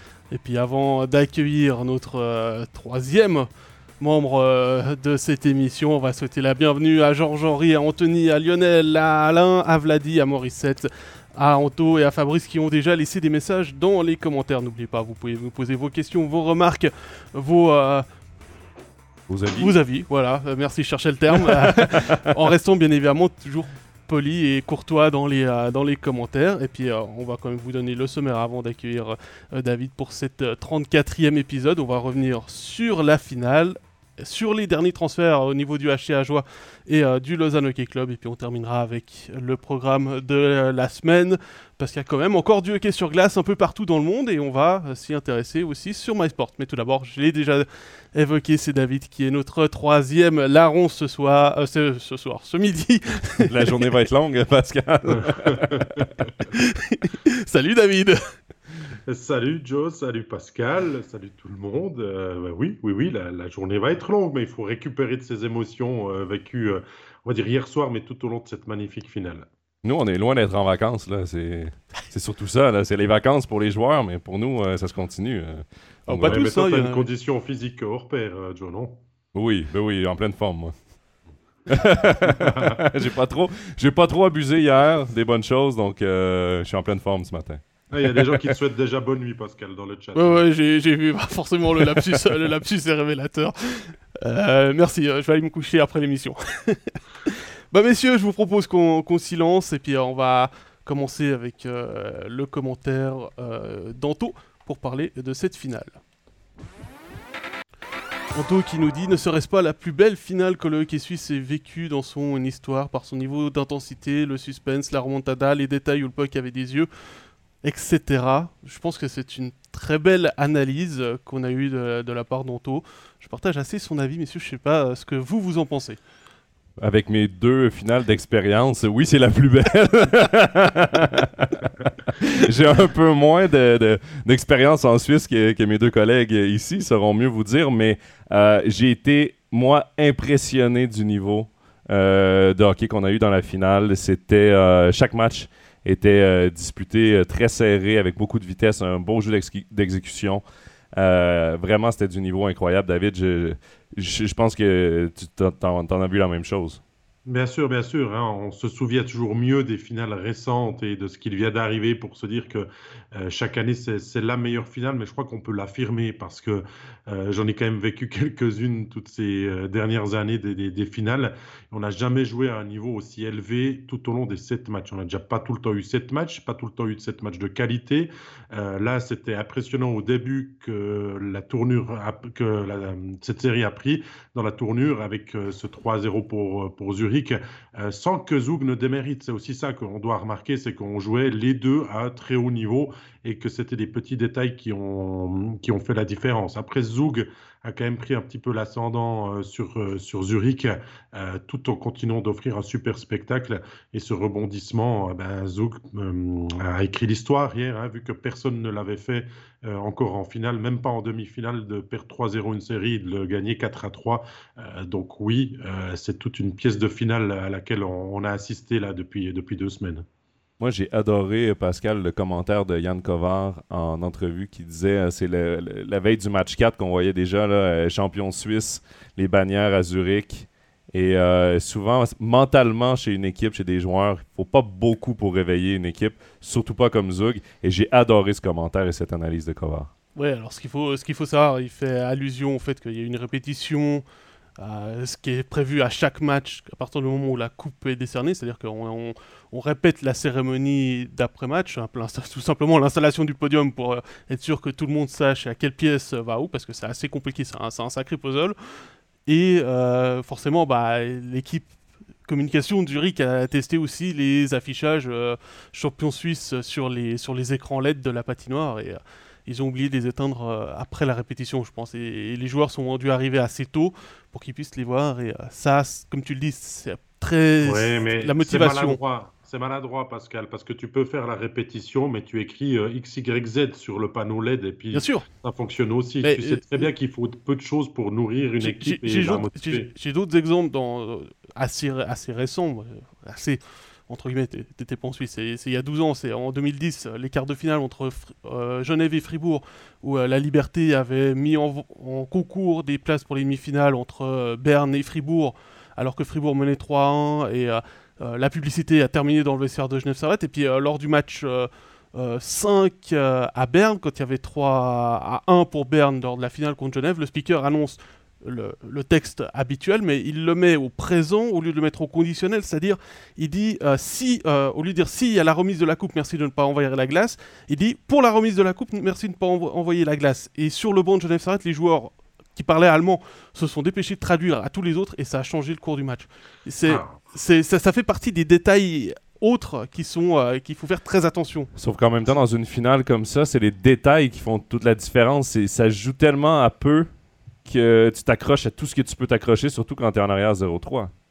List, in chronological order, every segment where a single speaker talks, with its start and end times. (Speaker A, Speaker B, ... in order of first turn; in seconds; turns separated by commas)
Speaker A: 0.3-18.1, Speaker B: 19.3-19.7, Speaker A: 19.5-53.7, Speaker B: 21.4-22.2, Speaker B: 53.4-56.1, Speaker C: 55.1-56.3, Speaker A: 56.5-58.2, Speaker C: 59.1-69.5, Speaker B: 69.8-76.4, Speaker A: 76.1-77.0, Speaker C: 76.3-79.0, Speaker B: 79.3-80.7, Speaker B: 81.7-88.5, Speaker C: 82.2-82.8, Speaker C: 87.9-90.4, Speaker A: 90.1-106.0, Speaker A: 108.3-116.9, Speaker A: 117.6-126.0, Speaker B: 126.8-150.4, Speaker B: 150.9-156.8, Speaker C: 157.2-220.1, Speaker B: 220.6-239.9, Speaker A: 240.2-244.0, Speaker A: 244.6-258.6, Speaker A: 259.2-261.7, Speaker A: 262.2-279.0, Speaker C: 277.6-289.9, Speaker A: 284.9-285.2, Speaker A: 286.2-286.9, Speaker A: 288.6-341.7, Speaker C: 336.9-337.2, Speaker B: 341.8-347.1, Speaker B: 347.6-351.1